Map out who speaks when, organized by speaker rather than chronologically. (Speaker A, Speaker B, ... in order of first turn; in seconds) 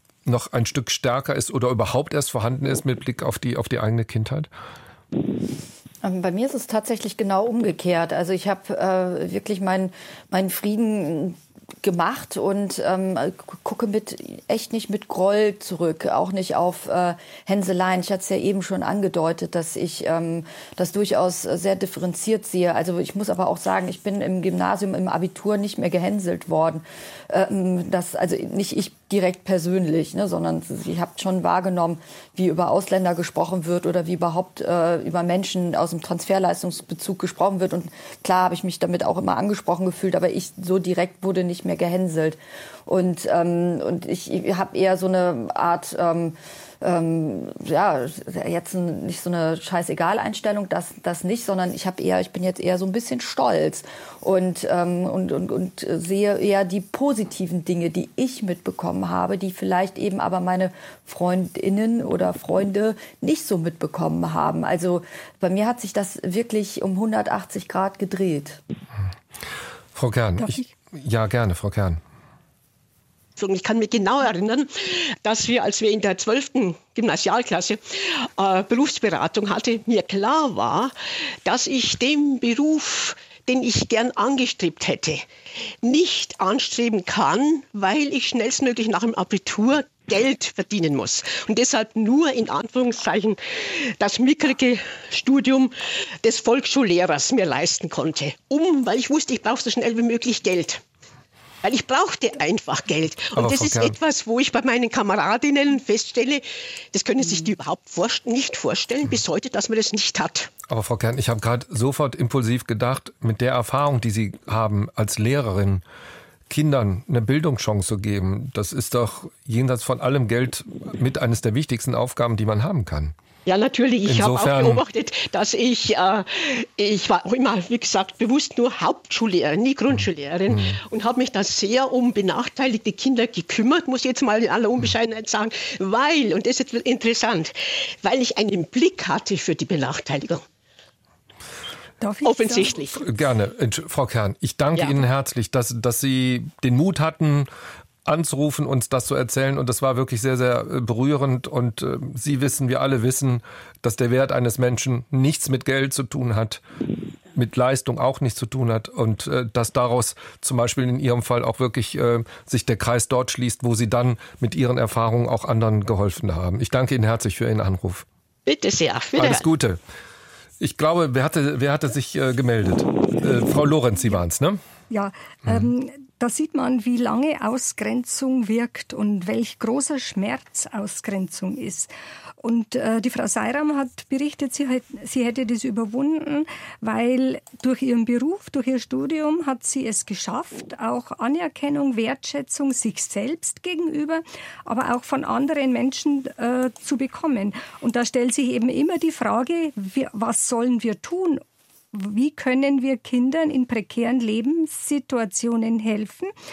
Speaker A: 0.2-4.5, 69.9-72.0, 103.3-104.0, 110.7-115.8, 116.5-123.1, 124.0-124.8, 130.5-130.8, 143.0-147.5, 148.0-156.6, 157.3-168.1, 169.2-169.8, 170.6-174.6
Speaker B: 6.0-68.6
Speaker C: 70.4-70.7, 142.0-142.8, 174.9-201.4, 201.9-206.3
Speaker D: 73.4-80.9, 81.4-85.3, 85.8-100.8, 101.6-110.5, 123.5-140.4, 142.2-143.0, 168.4-169.4